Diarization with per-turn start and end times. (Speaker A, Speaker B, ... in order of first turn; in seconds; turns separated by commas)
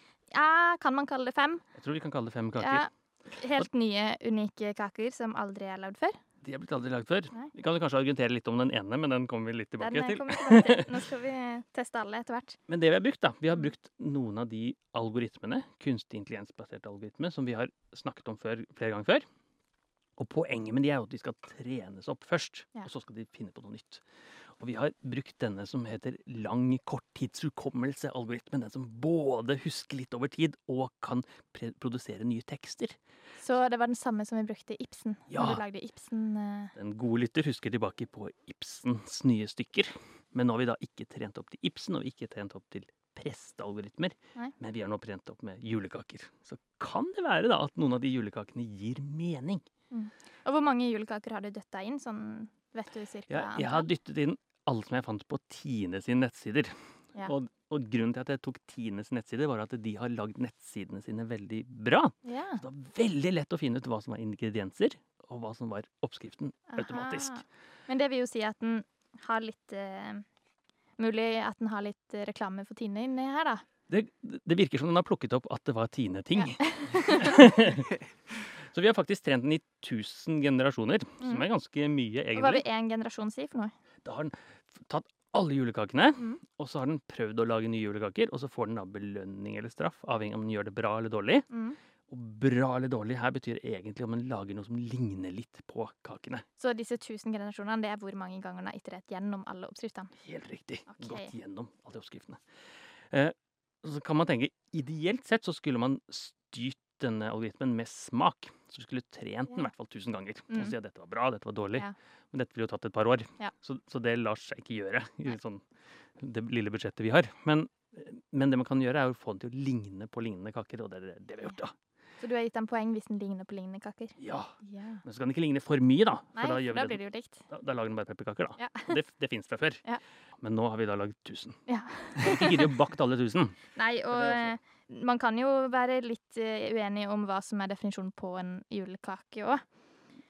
Speaker A: 0.3-1.6, Speaker B: 1.7-2.9, Speaker A: 2.6-6.2, Speaker B: 6.4-10.9, Speaker A: 9.8-12.6, Speaker B: 12.7-19.2, Speaker B: 20.2-24.0, Speaker B: 24.6-33.0, Speaker A: 33.4-36.7, Speaker B: 35.3-35.6, Speaker B: 36.8-49.6, Speaker A: 49.9-53.9, Speaker B: 53.3-56.7, Speaker B: 57.2-67.4, Speaker A: 62.2-62.6, Speaker A: 66.7-70.2, Speaker A: 71.0-73.6, Speaker B: 73.9-77.9, Speaker A: 76.3-77.4, Speaker B: 78.7-82.6, Speaker A: 82.3-83.7, Speaker B: 84.0-91.5, Speaker A: 91.5-91.8, Speaker B: 92.1-96.4, Speaker A: 96.6-100.1, Speaker B: 100.2-102.4, Speaker A: 100.9-101.3, Speaker B: 103.1-115.6, Speaker B: 116.2-121.7, Speaker A: 122.2-125.0, Speaker B: 124.2-129.8, Speaker A: 126.3-127.4, Speaker A: 128.6-129.0, Speaker B: 130.4-131.6, Speaker A: 131.7-132.7, Speaker B: 132.2-133.6, Speaker A: 133.8-139.6, Speaker B: 134.1-134.6